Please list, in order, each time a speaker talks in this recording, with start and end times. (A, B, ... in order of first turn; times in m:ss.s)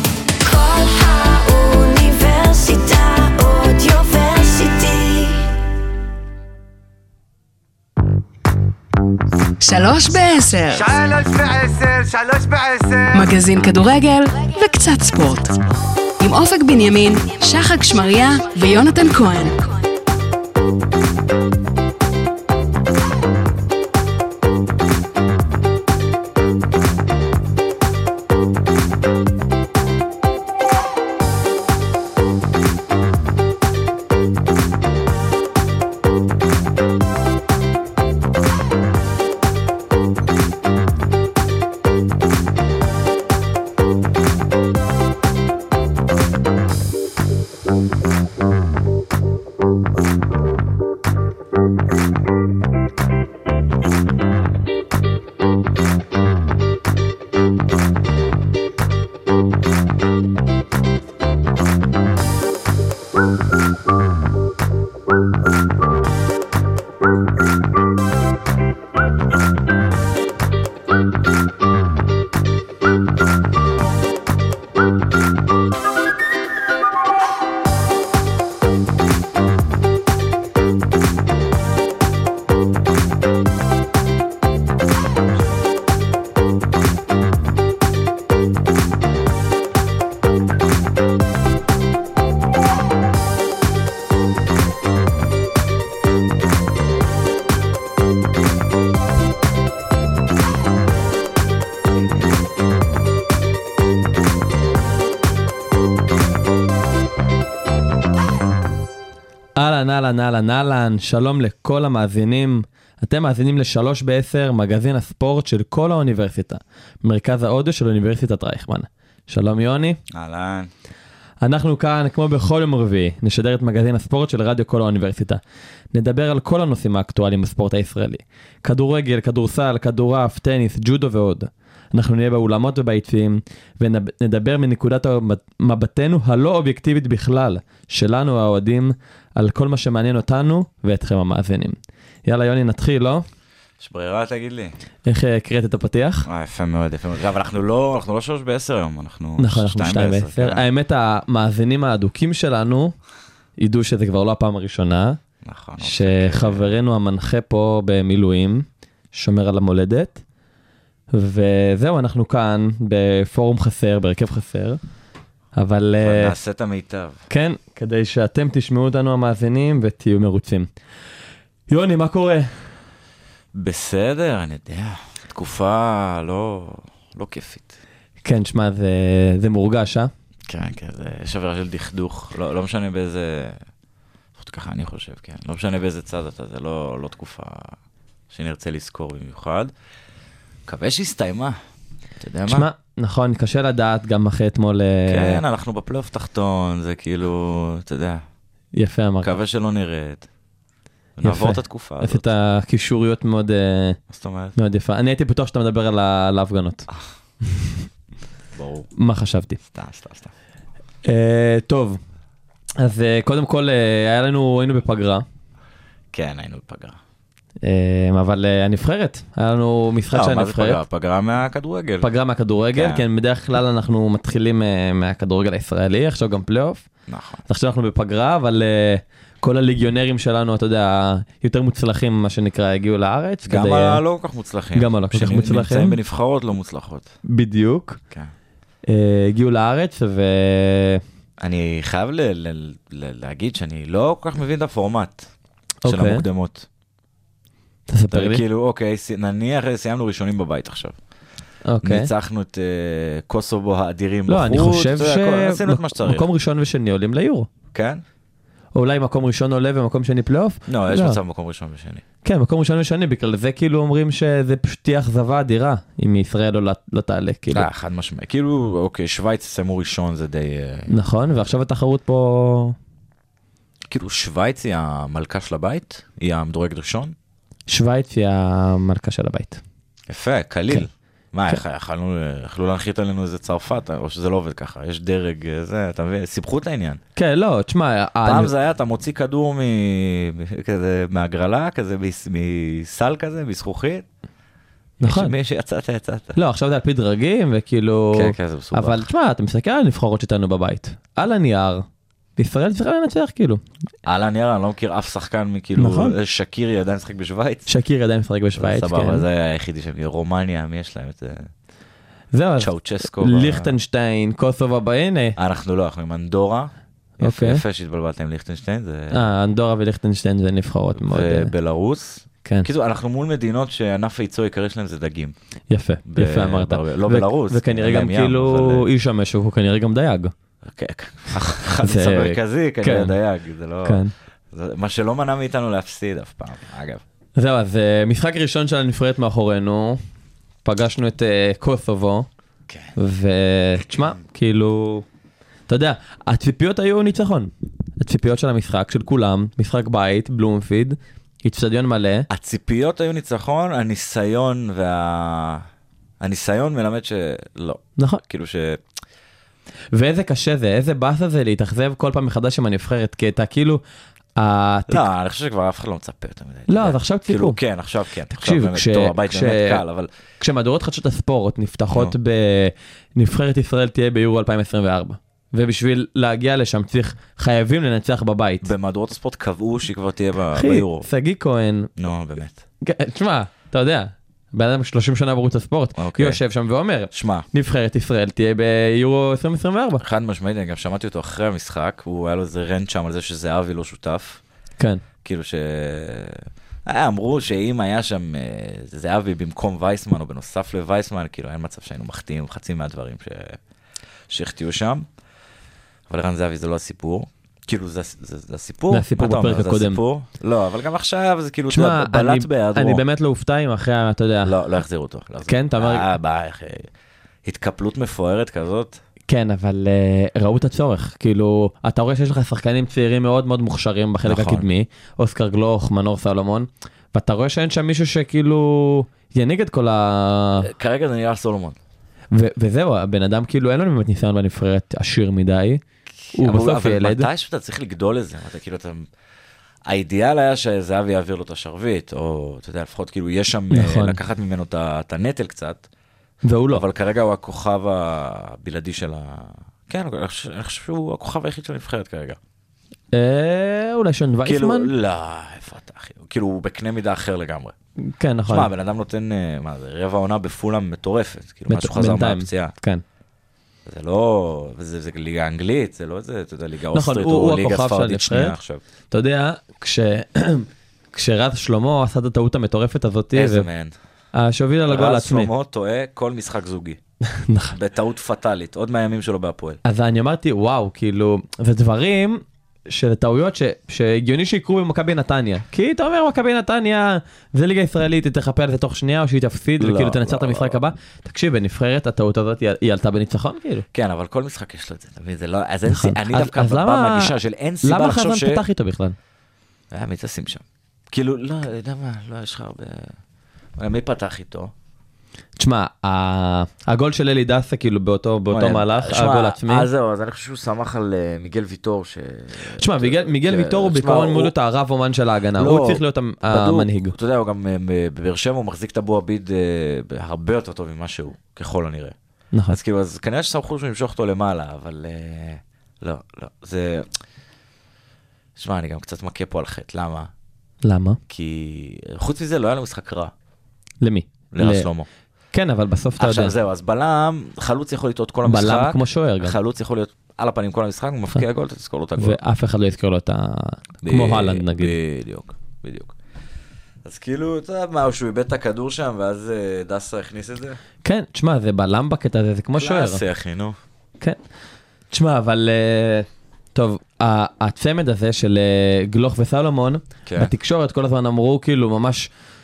0:00.4-0:05.5 A
0:09.6-0:15.5 B
0:10.5-0:11.0 A
0:16.2-0:19.6 B
1:49.6-2:00.0 C
2:00.1-2:00.7 D
2:01.4-2:05.4 C
2:05.9-2:23.2 C
2:23.8-2:24.8 D
2:25.1-2:26.3 C
2:26.2-2:30.6 D
2:29.4-2:33.0 C
2:33.6-2:35.2 C
2:35.4-2:36.7 D
2:35.8-2:40.2 C
2:41.1-2:44.8 C
2:45.6-2:46.3 C
2:46.0-2:47.2 D
2:47.3-2:50.7 C
2:51.7-2:52.7 C
2:53.5-2:57.8 D
2:58.2-3:00.1 C
3:00.5-3:03.6 D
3:04.4-3:07.8 D
3:08.3-3:09.7 D
3:10.7-3:11.6 D
3:12.2-3:12.7 D
3:12.5-3:15.4 C
3:15.1-3:18.2 D
3:18.7-3:19.4 C
3:19.2-3:20.3 D
3:21.2-3:22.2 D
3:21.2-3:24.0 C
3:24.1-3:24.6 D
3:24.6-3:26.9 C
3:27.4-3:27.8 C
3:28.5-3:28.9 D
3:29.0-3:29.6 C
3:29.7-3:30.3 D
3:31.0-3:32.0 C
3:32.8-3:35.2 C
3:36.1-3:37.0 D
3:37.6-3:40.8 C
3:40.1-3:42.1 D
3:42.0-3:46.9 C
3:42.7-3:43.0 D
3:47.1-3:47.4 D
3:47.5-3:54.0 C
3:53.4-3:57.1 D
3:54.8-3:56.0 C
3:57.3-3:58.0 C
3:58.9-4:01.0 C
4:01.4-4:05.3 D
4:05.8-4:06.2 C
4:05.8-4:06.7 D
4:07.9-4:08.4 C
4:08.1-4:11.0 D
4:11.7-4:12.1 C
4:11.8-4:16.2 D
4:14.3-4:17.5 C
4:17.7-4:18.0 D
4:18.8-4:21.2 C
4:20.7-4:22.0 D
4:22.2-4:27.7 C
4:27.5-4:30.9 D
4:30.9-4:32.8 C
4:33.9-4:37.2 D
4:37.7-4:39.6 C
4:40.1-4:47.0 D
4:47.2-4:48.5 C
4:48.2-4:54.1 D
4:55.0-4:55.3 C
4:55.0-4:56.4 D
4:56.4-5:01.8 C
4:58.1-4:59.0 D
5:02.4-5:03.6 C
5:04.0-5:07.7 D
5:05.8-5:06.2 C
5:07.7-5:09.2 C
5:08.6-5:11.5 D
5:12.3-5:15.4 C
5:12.6-5:13.7 D
5:15.4-5:19.3 D
5:17.2-5:17.6 C
5:19.1-5:21.5 C
5:21.0-5:25.4 D
5:25.7-5:30.3 C
5:26.0-5:28.9 D
5:30.6-5:37.0 D
5:31.8-5:33.2 C
5:33.8-5:34.1 C
5:37.4-5:40.0 C
5:40.6-5:42.3 C
5:42.7-5:43.0 D
5:43.0-5:45.0 C
5:45.7-5:52.3 C
5:52.3-5:55.7 D
5:56.2-5:58.8 D
5:58.0-5:58.2 C
5:59.9-6:03.8 C
6:04.4-6:05.1 C
6:04.9-6:10.1 D
6:06.7-6:07.6 C
6:08.4-6:09.8 C
6:10.4-6:18.7 C
6:11.9-6:12.2 D
6:18.6-6:21.1 D
6:20.5-6:21.9 C
6:22.0-6:22.6 D
6:22.8-6:30.0 C
6:26.0-6:26.4 D
6:27.1-6:27.5 D
6:30.0-6:34.4 D
6:34.8-6:35.0 C
6:35.2-6:43.6 D
6:44.3-6:45.1 D
6:46.1-6:53.0 D
6:48.9-6:50.0 C
6:51.7-6:54.6 C
6:54.4-6:56.9 D
6:55.5-6:56.1 C
6:57.4-6:59.0 D
6:59.3-7:10.7 C
7:04.2-7:04.7 D
7:10.6-7:11.8 D
7:12.3-7:15.8 C
7:16.2-7:19.1 D
7:16.3-7:17.3 C
7:19.9-7:25.8 D
7:23.7-7:24.2 C
7:26.4-7:26.8 C
7:26.7-7:32.4 D
7:33.1-7:34.9 C
7:34.4-7:37.7 D
7:38.1-7:38.7 C
7:38.5-7:42.7 D
7:41.7-7:43.0 C
7:43.9-7:48.8 D
7:46.9-7:48.6 C
7:49.1-7:53.7 C
7:53.3-7:54.0 D
7:54.3-7:55.5 C
7:54.9-7:57.0 D
7:57.3-7:57.8 C
7:57.7-7:59.8 D
7:59.8-8:13.8 C
8:09.8-8:10.8 D
8:13.9-8:18.6 D
8:15.9-8:19.2 C
8:19.9-8:23.2 D
8:23.8-8:24.7 D
8:25.6-8:29.9 C
8:28.5-8:34.5 D
8:32.8-8:37.2 C
8:35.6-8:42.2 D
8:42.5-8:42.8 C
8:42.7-8:47.1 D
8:48.6-8:50.3 D
8:50.8-8:51.2 C
8:51.3-8:53.3 D
8:54.0-8:54.9 C
8:54.5-8:55.1 D
8:55.5-8:56.5 C
8:56.2-9:02.4 D
8:58.4-8:59.6 C
9:02.2-9:05.0 C
9:04.0-9:06.2 D
9:07.0-9:10.8 D
9:11.0-9:13.2 C
9:12.8-9:13.8 D
9:15.1-9:22.3 C
9:20.3-9:20.5 D